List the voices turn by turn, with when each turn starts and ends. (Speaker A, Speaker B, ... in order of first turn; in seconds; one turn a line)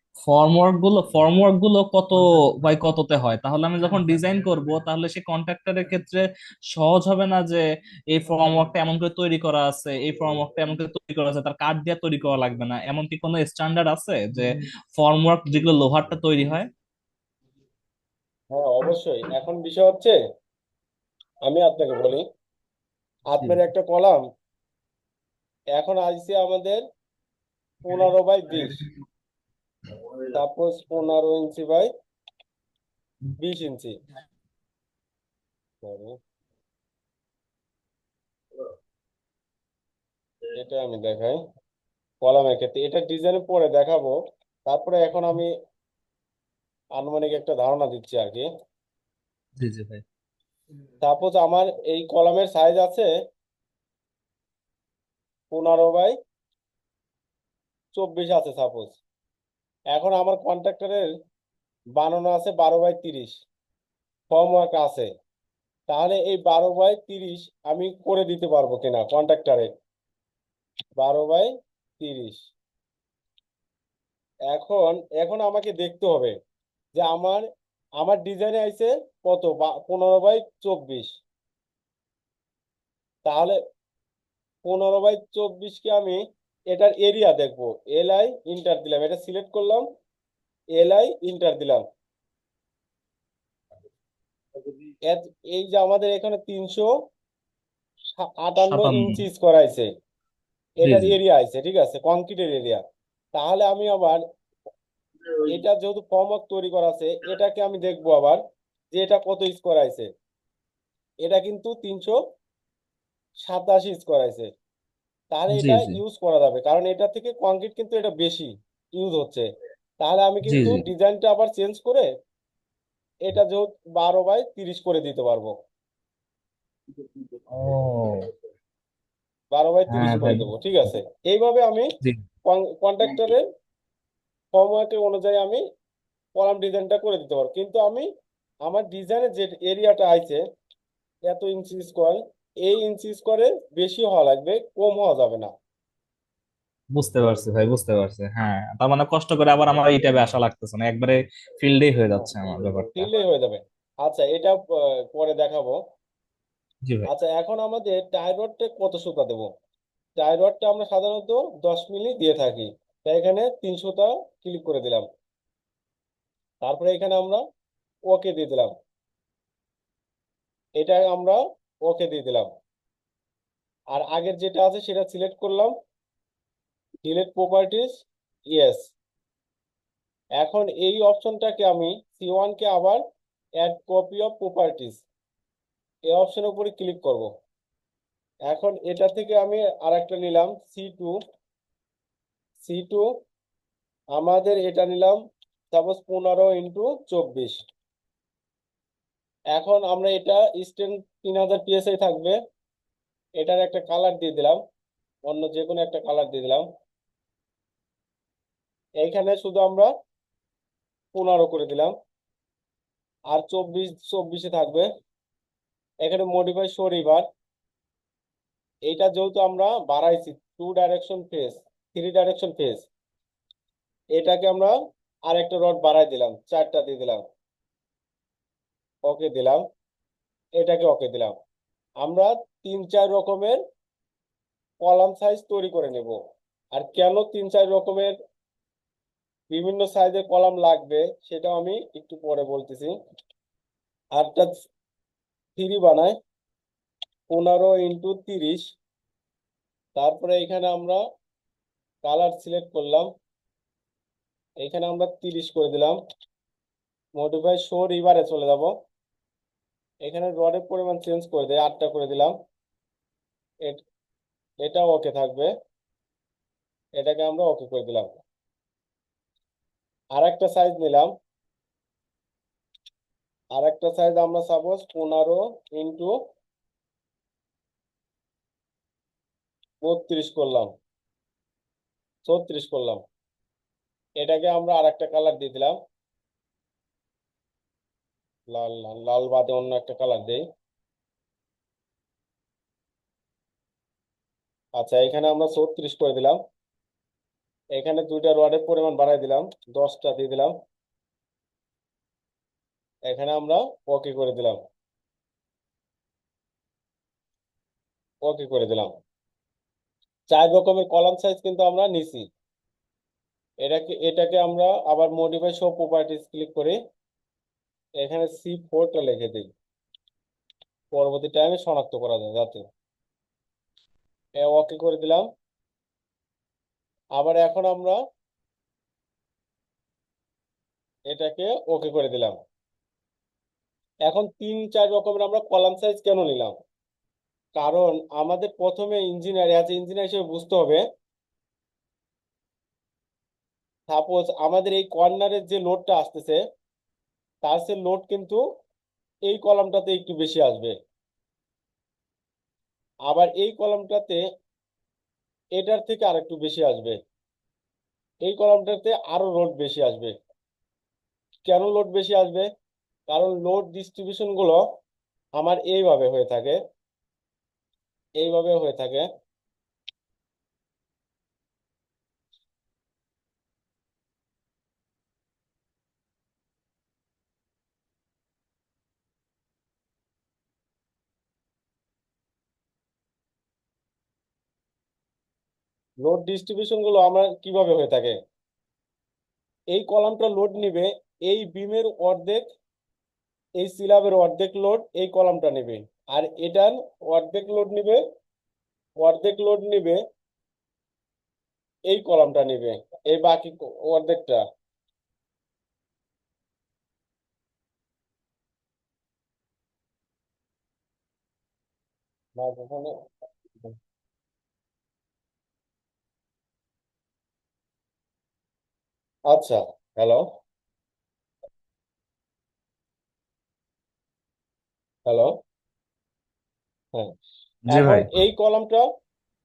Speaker A: 0.3-16.7
Speaker B: 18.5-20.2
Speaker B: 21.4-22.2
Speaker B: 23.3-24.2
Speaker B: 25.8-26.8
Speaker B: 27.9-28.8
Speaker B: 30.3-31.9
Speaker B: 33.4-33.9
Speaker B: 35.8-36.2
Speaker B: 40.5-41.4
Speaker B: 42.2-44.2
Speaker B: 44.7-45.5
Speaker B: 47.0-48.5
Speaker A: 49.6-50.0
Speaker B: 51.0-53.1
Speaker B: 55.5-56.1
Speaker B: 57.9-59.0
Speaker B: 59.9-61.1
Speaker B: 62.0-63.4
Speaker B: 64.3-65.1
Speaker B: 65.9-69.7
Speaker B: 71.0-71.5
Speaker B: 72.0-72.4
Speaker B: 74.5-76.3
Speaker B: 77.0-77.4
Speaker B: 78.0-81.1
Speaker B: 83.2-83.6
Speaker B: 84.7-86.2
Speaker B: 86.7-89.8
Speaker B: 90.8-91.8
Speaker B: 95.1-96.9
Speaker B: 98.2-99.9
Speaker A: 98.6-99.2
Speaker B: 100.8-102.8
Speaker A: 100.8-101.2
Speaker B: 103.3-104.2
Speaker B: 105.5-108.4
Speaker B: 108.9-110.1
Speaker B: 111.2-112.2
Speaker B: 113.5-114.5
Speaker B: 115.3-119.5
Speaker A: 115.5-116.0
Speaker B: 120.0-122.1
Speaker A: 120.5-120.8
Speaker B: 123.2-125.5
Speaker A: 127.5-128.2
Speaker B: 129.5-131.9
Speaker A: 129.9-130.5
Speaker B: 132.5-133.4
Speaker B: 134.5-135.6
Speaker B: 136.4-138.1
Speaker B: 138.7-140.4
Speaker B: 141.3-145.5
Speaker A: 146.9-153.1
Speaker B: 152.9-155.8
Speaker B: 157.1-159.5
Speaker B: 160.2-165.1
Speaker B: 166.6-167.4
Speaker B: 168.1-168.7
Speaker B: 170.8-172.5
Speaker B: 173.9-175.7
Speaker B: 177.0-177.9
Speaker B: 178.5-178.8
Speaker B: 180.4-183.0
Speaker B: 183.6-185.0
Speaker B: 186.1-187.3
Speaker B: 188.5-191.1
Speaker B: 192.7-193.1
Speaker B: 194.2-195.2
Speaker B: 195.7-197.6
Speaker B: 199.6-202.4
Speaker B: 203.4-204.6
Speaker B: 205.3-206.6
Speaker B: 209.0-209.9
Speaker B: 211.1-211.9
Speaker B: 213.3-214.9
Speaker B: 216.0-217.2
Speaker B: 218.9-222.9
Speaker B: 224.2-224.7
Speaker B: 225.3-227.2
Speaker B: 229.1-229.6
Speaker B: 230.6-231.3
Speaker B: 232.0-233.6
Speaker B: 234.8-236.2
Speaker B: 236.8-238.2
Speaker B: 239.5-242.9
Speaker B: 244.2-244.5
Speaker B: 245.6-246.1
Speaker B: 247.3-248.6
Speaker B: 250.0-251.0
Speaker B: 252.0-253.1
Speaker B: 254.6-256.0
Speaker B: 257.2-258.7
Speaker B: 260.0-262.3
Speaker B: 264.6-265.5
Speaker B: 267.0-268.1
Speaker B: 270.2-271.1
Speaker B: 273.6-276.1
Speaker B: 279.8-280.7
Speaker B: 282.3-283.0
Speaker B: 284.2-285.7
Speaker B: 288.5-290.4
Speaker B: 294.8-296.4
Speaker B: 297.8-300.5
Speaker B: 303.1-304.6
Speaker B: 308.2-308.9
Speaker B: 310.3-312.3
Speaker B: 313.6-316.8
Speaker B: 318.0-319.5
Speaker B: 320.9-322.6
Speaker B: 324.4-325.2
Speaker B: 327.2-328.0
Speaker B: 331.1-332.4
Speaker B: 334.1-336.5
Speaker B: 337.6-340.8
Speaker B: 343.9-346.4
Speaker B: 347.4-348.4
Speaker B: 349.3-350.8
Speaker B: 353.1-354.2
Speaker B: 355.6-357.0
Speaker B: 358.2-360.1
Speaker B: 361.5-362.5
Speaker B: 363.1-364.6
Speaker B: 365.4-366.6
Speaker B: 368.2-369.1
Speaker B: 386.0-388.2
Speaker B: 389.7-392.4
Speaker B: 393.6-398.0
Speaker B: 399.0-400.0
Speaker B: 401.9-404.4
Speaker B: 412.4-412.9
Speaker B: 419.3-420.2
Speaker A: 427.7-428.2
Speaker B: 427.7-428.8